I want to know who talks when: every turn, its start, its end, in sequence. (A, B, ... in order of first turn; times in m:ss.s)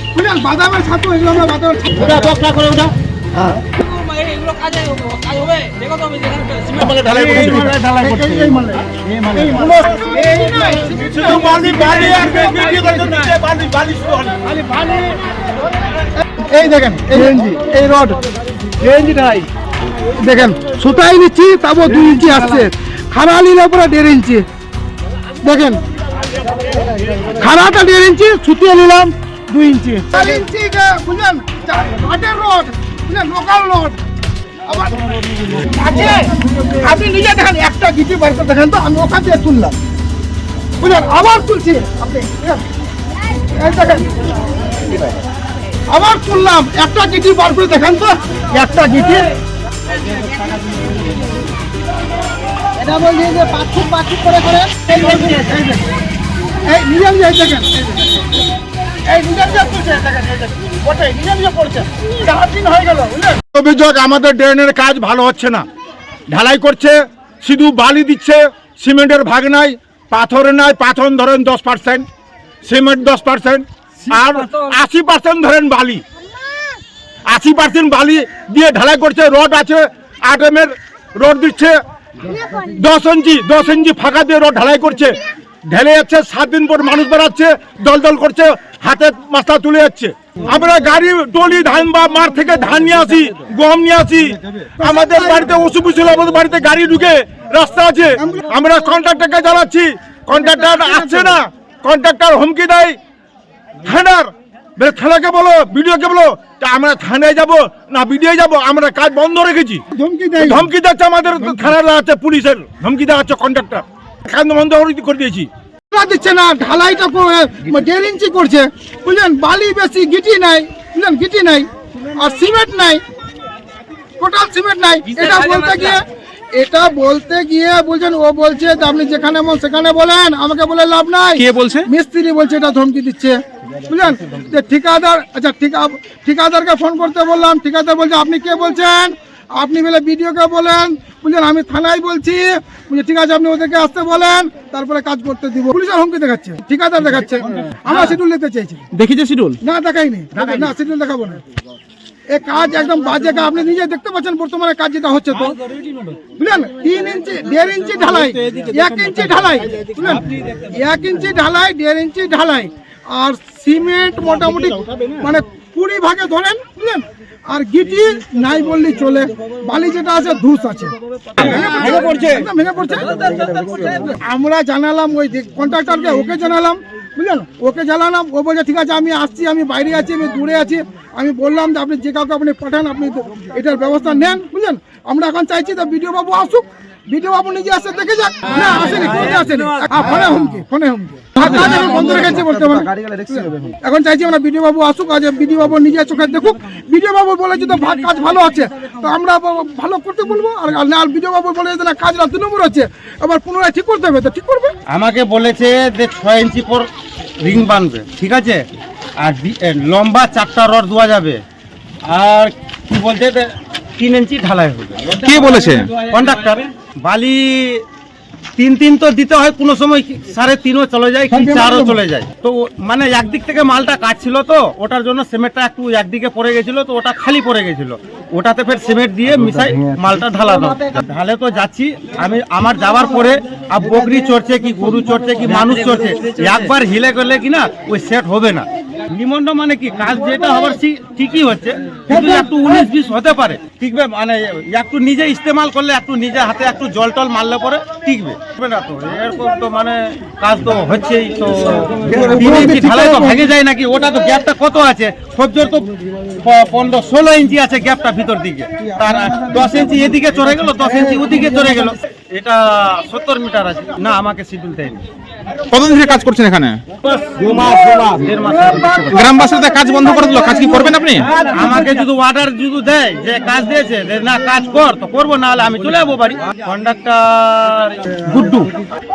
0:00.1-0:02.2 A
0:02.0-0:02.9 B
0:03.8-0:06.9 C
0:06.7-0:07.7 D
0:06.8-0:10.0 B
0:07.3-0:13.2 A
0:11.1-0:14.4 D
0:14.5-0:15.2 A
0:16.4-0:18.2 A
0:18.8-0:19.4 C
0:20.2-0:24.4 A
0:25.4-0:25.8 A
0:27.3-0:34.0 A
0:34.7-0:35.0 A
0:35.6-0:39.8 A
0:40.8-0:42.6 A
0:43.6-0:44.1 A
0:45.9-0:49.3 A
0:52.8-0:55.8 A
0:56.7-0:58.2 A
0:59.1-1:03.4 A
1:03.5-1:05.6 D
1:06.3-1:12.1 D
1:12.6-1:16.0 D
1:17.3-1:21.8 D
1:22.5-1:43.0 D
1:34.8-1:35.5 A
1:38.2-1:38.6 A
1:40.3-1:41.4 A
1:43.8-1:49.8 D
1:49.9-1:50.7 A
1:50.4-1:55.5 D
1:51.4-1:51.7 A
1:55.9-2:03.0 A
2:04.2-2:06.0 A
2:05.1-2:05.8 C
2:06.6-2:28.8 A
2:11.4-2:11.8 C
2:29.0-2:29.6 C
2:29.6-2:31.4 A
2:32.3-2:35.6 A
2:36.4-2:53.1 A
2:51.4-2:52.3 B
2:53.2-2:54.0 C
2:53.3-2:54.0 B
2:54.0-3:24.8 A
3:11.4-3:12.4 C
3:24.9-3:26.9 B
3:27.4-3:28.6 B
3:29.2-3:31.4 B
3:32.1-3:37.8 B
3:35.2-3:35.9 C
3:38.6-4:25.0 B
3:41.3-3:42.0 A
4:12.1-4:13.4 A
4:25.7-4:26.8 C
4:27.0-4:29.6 B
4:27.6-4:27.9 A
4:28.7-4:30.9 A
4:29.1-4:31.3 C
4:31.2-4:38.7 B